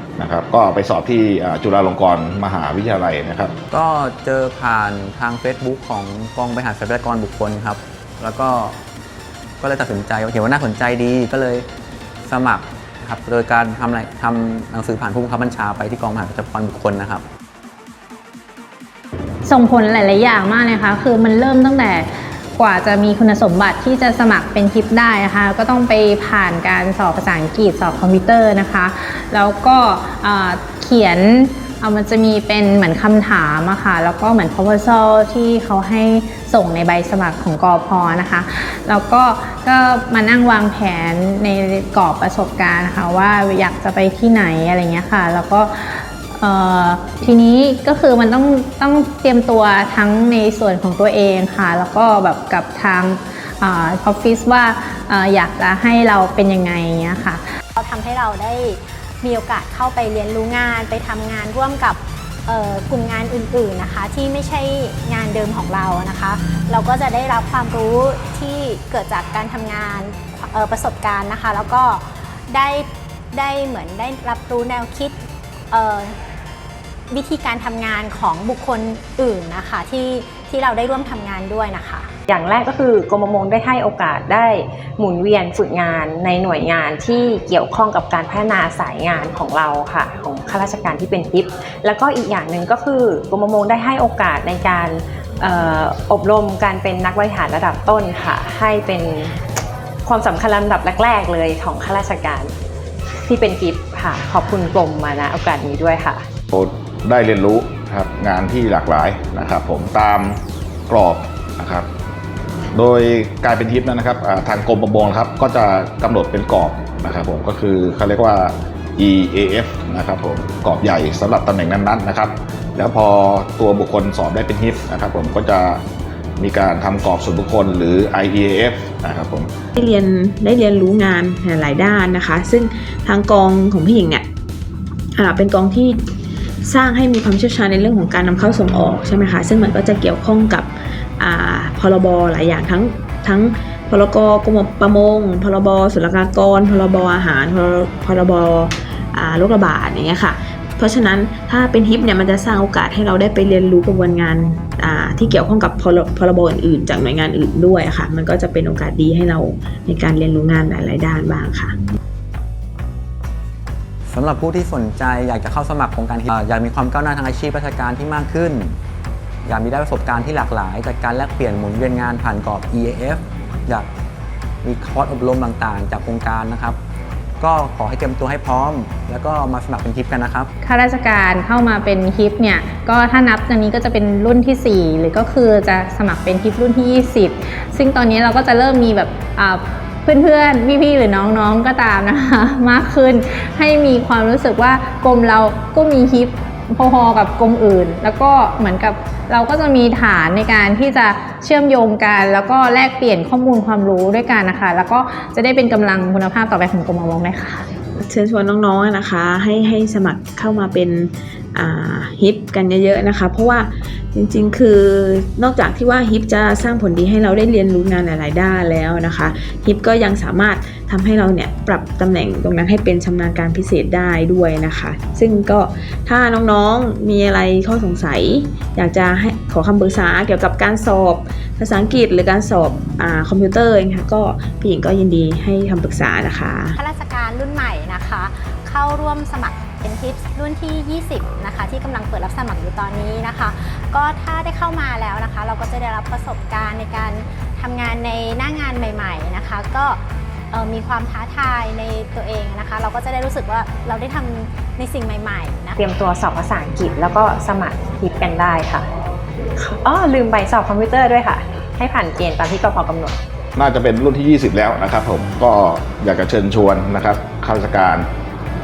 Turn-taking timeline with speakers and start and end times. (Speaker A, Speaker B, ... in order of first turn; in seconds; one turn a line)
Speaker A: 0.2-3.5
Speaker B: 3.7-8.8
Speaker B: 9.6-11.7
Speaker B: 12.2-17.2
Speaker C: 19.4-57.4
Speaker D: 57.8-75.2
Speaker D: 75.7-76.2
Speaker D: 77.1-82.1
Speaker E: 82.3-99.4
Speaker E: 100.0-102.5
Speaker E: 103.2-106.2
Speaker A: 106.5-111.9
Speaker A: 112.7-125.8
Speaker A: 126.4-129.5
Speaker F: 129.8-134.2
Speaker F: 135.2-136.0
Speaker F: 136.7-161.8
Speaker B: 164.1-168.8
Speaker B: 169.4-173.9
Speaker B: 174.6-176.8
Speaker B: 177.4-180.5
Speaker C: 180.6-207.6
Speaker F: 208.1-236.8
Speaker D: 236.8-255.8
Speaker E: 255.8-258.9
Speaker E: 259.6-263.2
Speaker A: 263.6-268.1